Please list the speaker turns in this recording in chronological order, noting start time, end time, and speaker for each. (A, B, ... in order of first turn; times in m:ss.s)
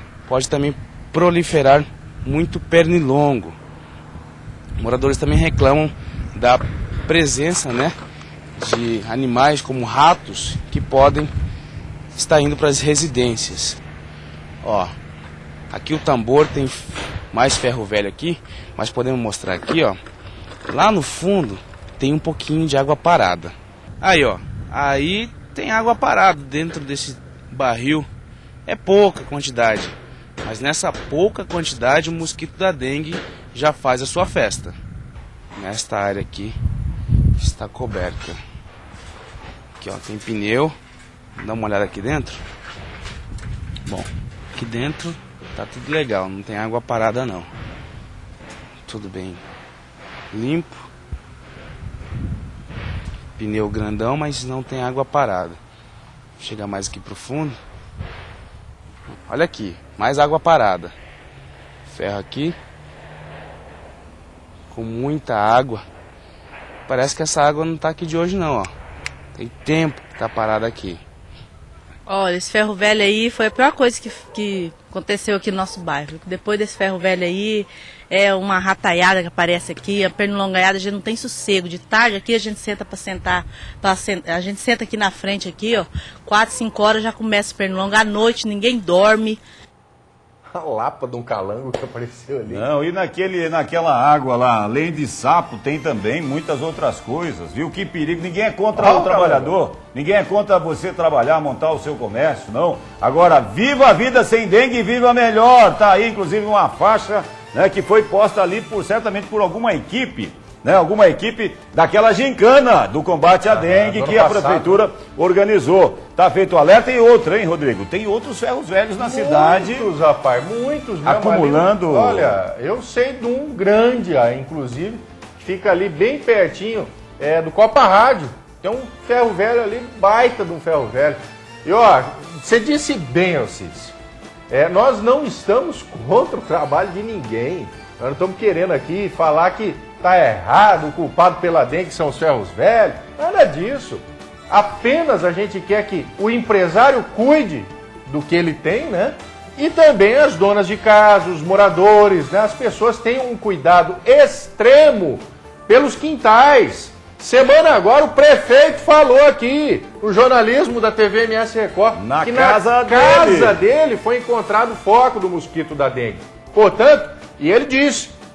0:00.2-0:03.6 A
0:04.8-0:07.9 A
0:08.6-0:11.3 A
0:12.1-0:13.8 A
0:14.6-0:14.9 A
0:15.7-0:20.0 A
0:20.7-0:28.1 A
0:28.6-0:34.8 A
0:35.6-0:36.6 A
0:37.4-0:38.4 A
0:39.8-0:40.8 A
0:41.4-0:42.4 A
0:43.8-0:47.5 A
0:48.8-0:49.4 A
0:50.3-0:50.8 A
0:53.4-0:55.6 A
0:56.4-0:57.6 A
0:59.3-1:00.9 A
1:01.9-1:02.6 A
1:04.7-1:05.8 A
1:06.9-1:08.7 A
1:09.3-1:11.0 A
1:12.1-1:29.4 B
1:30.5-1:32.7 C
1:32.5-1:59.9 D
1:38.7-1:39.5 C
1:53.5-1:54.8 C
1:59.0-2:13.9 C
2:01.0-2:02.4 D
2:14.5-2:48.1 C
2:42.0-2:43.6 D